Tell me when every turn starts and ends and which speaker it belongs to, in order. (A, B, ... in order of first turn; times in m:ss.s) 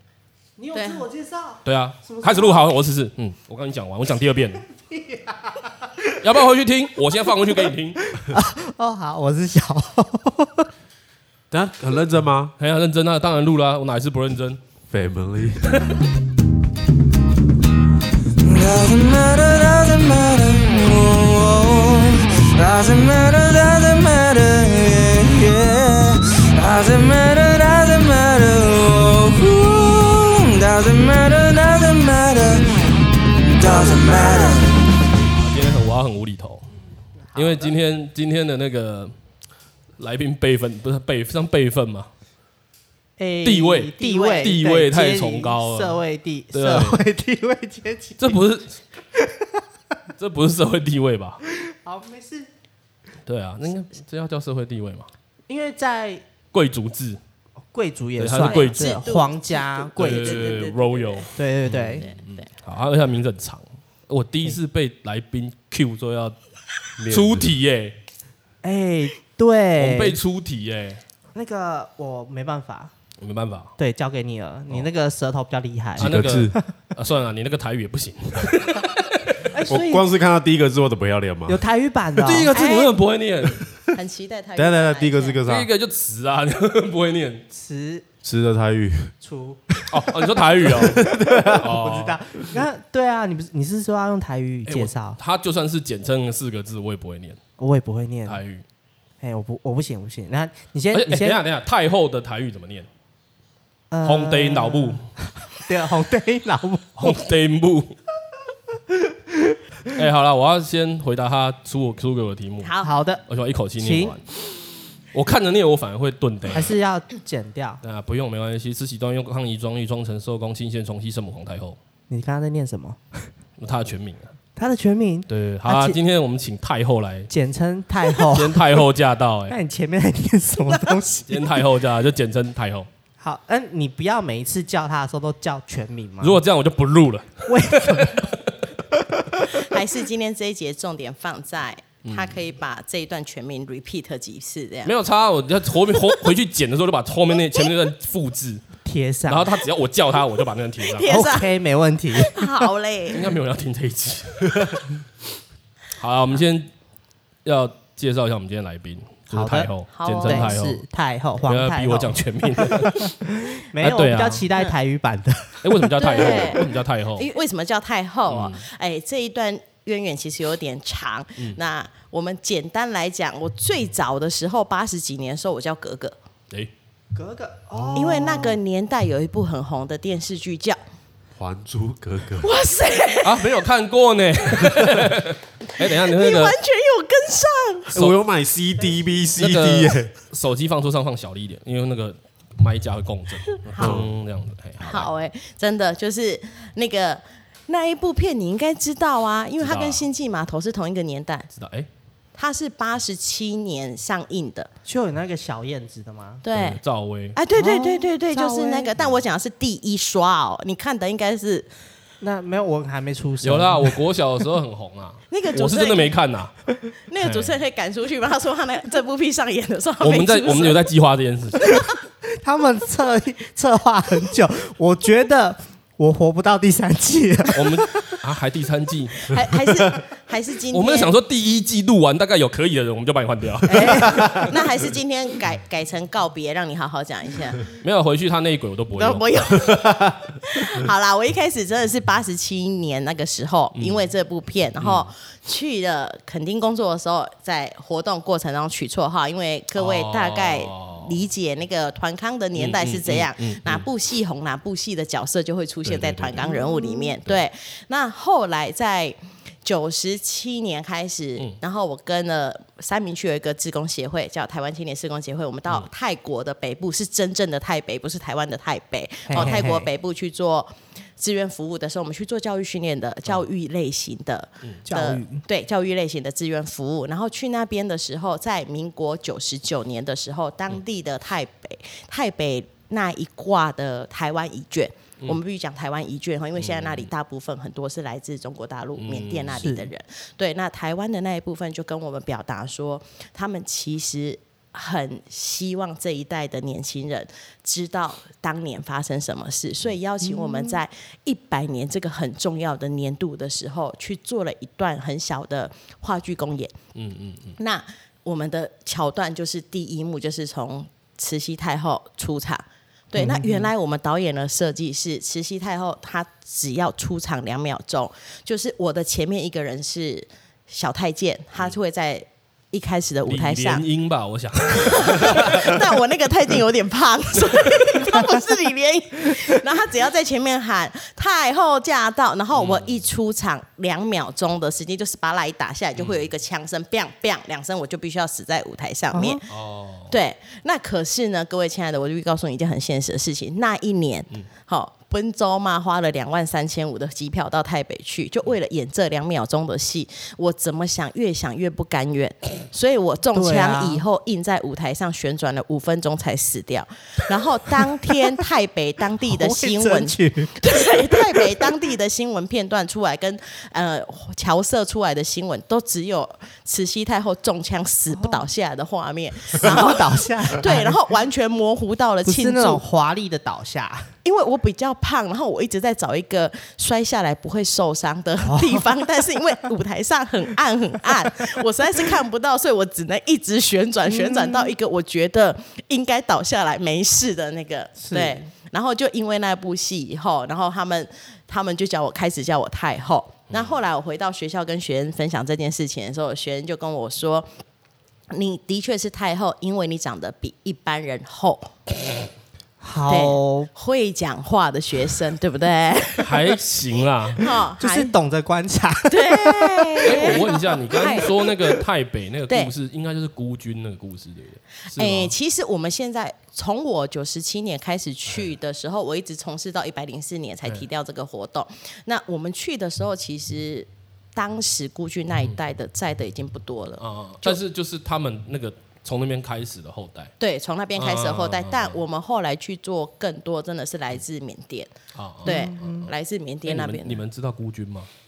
0:00.6-0:02.6 A
0:00.7-0:01.0 B
0:01.6-0:04.6 C
0:04.7-0:06.1 A
0:06.2-0:08.0 C
0:08.1-0:10.7 A
0:11.5-0:12.5 D
0:12.6-0:14.6 C
0:14.9-0:15.6 D
0:15.7-0:16.0 C
0:18.4-0:32.9 E
0:33.5-0:34.9 E
0:35.3-0:36.6 C
0:37.3-0:37.7 A
0:37.3-0:39.1 C
0:40.0-0:42.1 C
0:43.2-0:48.4 A
0:43.4-0:46.0 C
0:44.0-0:44.6 B
0:46.5-0:47.0 C
0:48.2-0:48.8 C
0:49.1-0:49.6 A
0:50.2-0:51.4 C
0:51.5-0:52.5 A
0:53.3-0:55.1 C
0:55.5-0:56.2 A
0:56.5-0:57.2 C
0:57.7-1:00.7 A
0:58.2-0:59.0 C
0:58.3-1:01.3 B
1:00.0-1:06.4 C
1:01.3-1:02.0 A
1:01.9-1:02.4 B
1:07.0-1:07.5 D
1:07.1-1:08.0 C
1:08.6-1:10.2 A
1:09.8-1:11.0 C
1:11.3-1:12.9 A
1:13.2-1:13.7 C
1:13.8-1:16.7 A
1:16.0-1:16.5 D
1:16.0-1:19.5 C
1:19.5-1:20.1 A
1:19.7-1:21.6 D
1:21.5-1:22.6 A
1:22.2-1:23.6 C
1:22.5-1:23.0 B
1:23.9-1:25.4 B
1:24.6-1:25.7 D
1:25.4-1:27.4 C
1:27.5-1:28.0 A
1:28.2-1:29.1 D
1:29.2-1:29.6 A
1:29.9-1:32.2 C
1:30.6-1:31.6 D
1:30.8-1:35.2 A
1:34.7-1:37.4 C
1:37.6-1:38.4 A
1:38.3-1:38.6 C
1:39.2-1:41.4 A
1:40.9-1:42.9 C
1:43.9-1:47.2 A
1:44.0-1:45.1 C
1:47.0-1:48.0 C
1:48.9-1:49.6 A
1:49.9-1:52.8 C
1:52.6-1:52.9 B
1:52.8-1:53.2 A
1:53.3-1:54.2 C
1:53.8-1:54.2 A
1:55.1-1:56.7 C
1:56.5-1:57.8 A
1:57.8-2:01.8 C
2:02.1-2:03.3 A
2:03.6-2:04.4 C
2:04.6-2:06.0 A
2:05.3-2:07.3 C
2:07.3-2:08.7 A
2:08.2-2:09.6 C
2:09.5-2:11.5 A
2:11.2-2:12.9 C
2:13.2-2:16.4 A
2:16.2-2:18.6 C
2:17.5-2:18.3 A
2:18.9-2:19.7 A
2:19.5-2:24.9 B
2:22.0-2:22.4 C
2:24.8-2:28.6 C
2:28.8-2:29.6 A
2:29.3-2:31.2 C
2:30.8-2:31.5 B
2:31.0-2:32.5 A
2:32.1-2:33.3 B
2:33.1-2:34.8 C
2:35.9-2:36.7 C
2:37.4-2:40.8 C
2:39.3-2:46.6 A
2:39.9-2:40.5 B
2:41.4-2:43.1 C
2:43.8-2:44.5 C
2:45.6-2:47.3 C
2:46.0-2:56.1 B
2:48.3-2:48.6 C
2:57.1-2:58.6 A
2:57.9-3:00.8 B
3:01.4-3:02.5 D
3:02.4-3:03.5 B
3:03.2-3:06.6 C
3:05.8-3:07.9 B
3:07.9-3:10.1 D
3:09.4-3:15.1 C
3:13.6-3:14.0 B
3:13.8-3:14.1 D
3:14.8-3:21.5 B
3:19.6-3:20.0 C
3:21.5-3:21.9 C
3:22.3-3:24.7 B
3:24.8-3:26.4 A
3:26.4-3:26.8 B
3:26.5-3:27.4 C
3:27.3-3:31.7 B
3:27.5-3:28.9 A
3:32.2-3:34.0 A
3:33.4-3:36.5 C
3:35.3-3:36.1 B
3:37.1-3:40.8 B
3:37.2-3:37.6 C
3:40.0-3:41.6 C
3:42.3-3:48.2 A
3:47.5-3:49.2 C
3:49.3-3:51.1 B
3:50.7-3:54.5 C
3:53.7-3:57.6 B
3:53.8-3:54.2 A
3:57.7-3:59.5 C
3:59.0-5:06.7 B
3:59.6-4:00.1 D
4:03.7-4:04.1 C
4:04.8-4:05.1 C
4:09.8-4:11.1 C
4:12.6-4:13.9 C
4:15.8-4:16.5 C
4:16.4-4:17.1 A
4:29.3-4:29.9 A
4:34.8-4:35.4 A
4:46.6-4:47.1 C
4:49.0-4:49.6 C
4:49.5-4:49.9 A
5:00.2-5:00.8 A
5:06.9-5:07.6 C
5:07.6-5:23.8 B
5:13.2-5:13.7 A
5:23.3-5:25.8 C
5:24.8-5:39.4 B
5:27.4-5:27.7 C
5:32.5-5:33.0 C
5:36.0-5:36.3 C
5:39.1-5:39.4 A
5:39.5-5:40.2 C
5:40.1-6:12.8 B
5:53.3-5:54.0 A
5:59.2-6:01.4 A
6:08.1-6:08.5 A
6:09.5-6:11.0 A
6:12.2-6:14.1 A
6:14.2-6:37.5 B
6:18.4-6:19.0 A
6:24.1-6:24.7 A
6:28.0-6:28.4 A
6:33.5-6:33.8 C
6:38.3-6:41.7 B
6:42.8-6:43.7 A
6:43.1-6:46.6 B
6:46.2-6:47.5 C
6:47.4-6:48.1 B
6:47.8-6:50.4 A
6:49.1-6:51.7 B
6:50.0-6:55.3 C
6:54.9-7:07.6 B
7:07.0-7:10.3 C
7:10.4-7:14.9 B
7:11.0-7:12.0 C
7:15.1-7:16.1 C
7:15.4-7:17.2 B
7:15.4-7:16.1 A
7:16.6-7:18.1 C